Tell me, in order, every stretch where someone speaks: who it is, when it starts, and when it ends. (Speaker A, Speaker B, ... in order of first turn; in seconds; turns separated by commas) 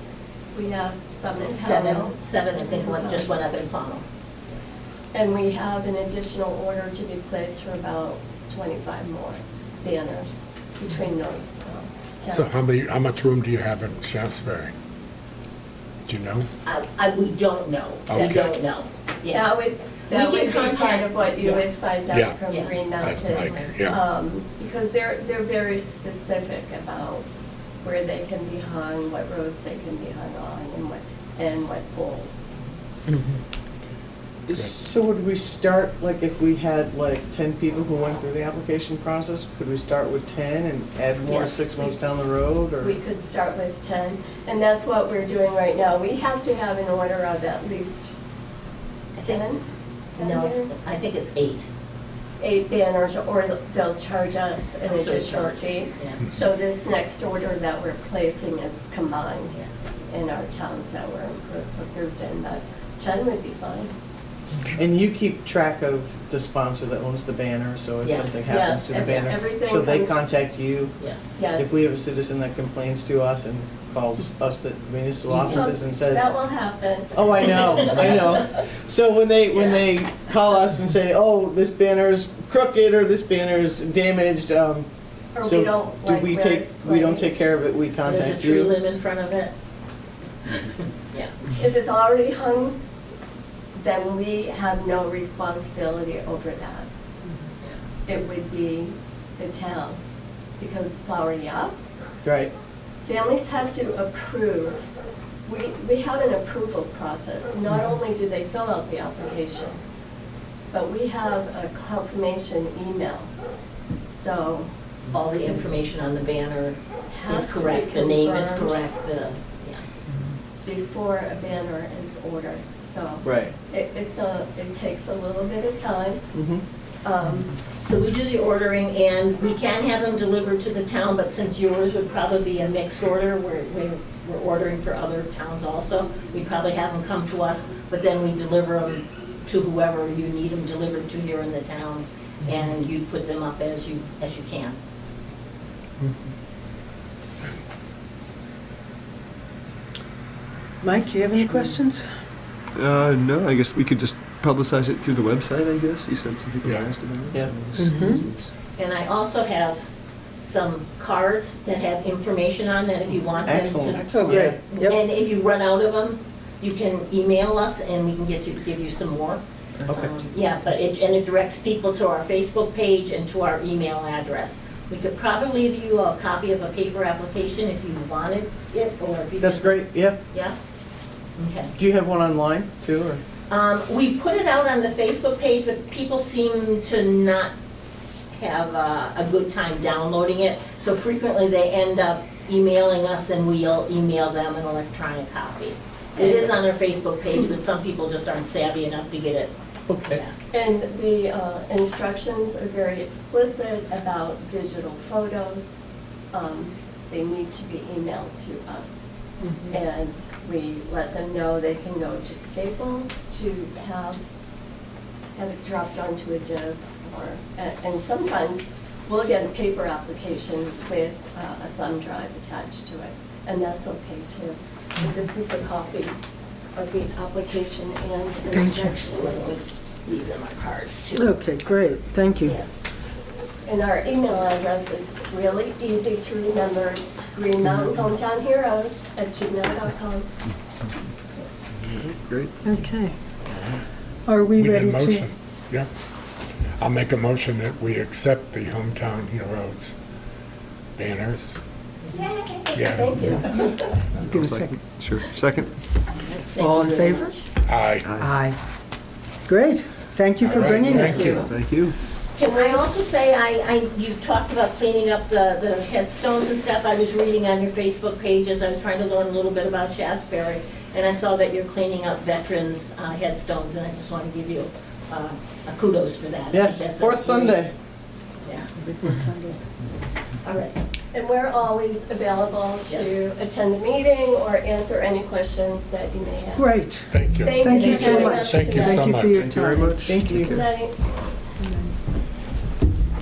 Speaker A: 0.5-3.2, Speaker B: 1.3-4.7, Speaker A: 5.1-12.5, Speaker C: 12.3-14.7, Speaker C: 16.1-16.5, Speaker B: 16.6-19.5, Speaker C: 18.1-18.6, Speaker A: 19.3-27.2, Speaker B: 20.1-21.6, Speaker C: 22.1-22.4, Speaker B: 22.5-22.8, Speaker C: 23.0-24.0, Speaker A: 27.8-32.4, Speaker D: 34.5-43.0, Speaker B: 41.2-41.8, Speaker A: 42.8-48.1, Speaker B: 49.2-49.4, Speaker A: 49.2-49.6, Speaker A: 50.1-50.7, Speaker B: 50.2-51.7, Speaker A: 52.4-59.5, Speaker B: 54.8-56.3, Speaker A: 60.1-63.9, Speaker D: 64.8-71.0, Speaker B: 68.0-69.4, Speaker A: 68.5-70.1, Speaker B: 71.0-71.4, Speaker A: 71.4-71.7, Speaker D: 71.5-76.3, Speaker B: 75.3-75.7, Speaker A: 75.5-77.9, Speaker D: 77.1-84.9, Speaker A: 85.3-87.5, Speaker D: 85.4-88.7, Speaker B: 88.0-89.5, Speaker A: 91.5-92.8, Speaker A: 93.7-96.9, Speaker A: 98.0-100.0, Speaker A: 100.6-101.8, Speaker D: 102.2-102.5, Speaker A: 103.0-104.8, Speaker A: 105.5-109.8, Speaker A: 110.7-113.3, Speaker A: 114.1-114.7, Speaker B: 115.1-119.8, Speaker A: 117.1-118.8, Speaker A: 120.6-126.2, Speaker D: 123.2-123.5, Speaker D: 126.3-126.6, Speaker A: 127.0-127.5, Speaker B: 127.8-144.8, Speaker E: 150.8-152.1, Speaker F: 152.8-158.5, Speaker C: 156.6-156.9, Speaker D: 157.3-158.1, Speaker E: 157.8-158.2, Speaker B: 158.8-159.8, Speaker B: 160.4-180.5, Speaker D: 163.4-164.6, Speaker E: 164.1-165.0, Speaker D: 169.8-170.1, Speaker D: 179.4-180.2, Speaker B: 181.4-181.7, Speaker D: 181.7-183.2, Speaker B: 183.5-187.5, Speaker B: 188.3-199.5, Speaker A: 196.2-196.6, Speaker D: 199.9-200.2, Speaker B: 200.1-200.3, Speaker A: 200.5-205.7, Speaker A: 206.3-209.0, Speaker B: 209.4-209.8, Speaker A: 209.7-214.2, Speaker A: 215.3-226.2, Speaker A: 226.8-229.4, Speaker E: 228.5-228.9, Speaker B: 229.0-231.3, Speaker E: 231.1-232.6, Speaker B: 232.4-232.8, Speaker A: 233.7-240.3, Speaker B: 241.4-241.6, Speaker F: 241.8-242.5, Speaker E: 242.6-243.1, Speaker E: 244.2-245.2, Speaker C: 244.5-245.9, Speaker C: 246.8-249.9, Speaker C: 251.0-251.6, Speaker A: 252.1-254.0, Speaker C: 252.7-253.3, Speaker F: 254.2-255.7, Speaker E: 254.2-255.0, Speaker B: 256.2-257.5, Speaker E: 256.6-257.3, Speaker C: 257.7-258.1, Speaker F: 258.0-258.3, Speaker E: 258.1-258.6, Speaker E: 259.5-261.5, Speaker C: 260.4-261.4, Speaker B: 261.1-261.4, Speaker F: 261.3-261.9, Speaker B: 262.3-277.6, Speaker A: 262.4-262.8, Speaker D: 276.5-277.7, Speaker E: 278.8-279.6, Speaker B: 280.4-280.7, Speaker A: 281.1-286.7, Speaker B: 282.9-283.2, Speaker E: 286.5-290.3, Speaker C: 287.1-289.4, Speaker A: 287.4-289.2, Speaker F: 289.3-290.7, Speaker D: 290.0-290.6, Speaker A: 290.4-290.9, Speaker E: 291.6-291.9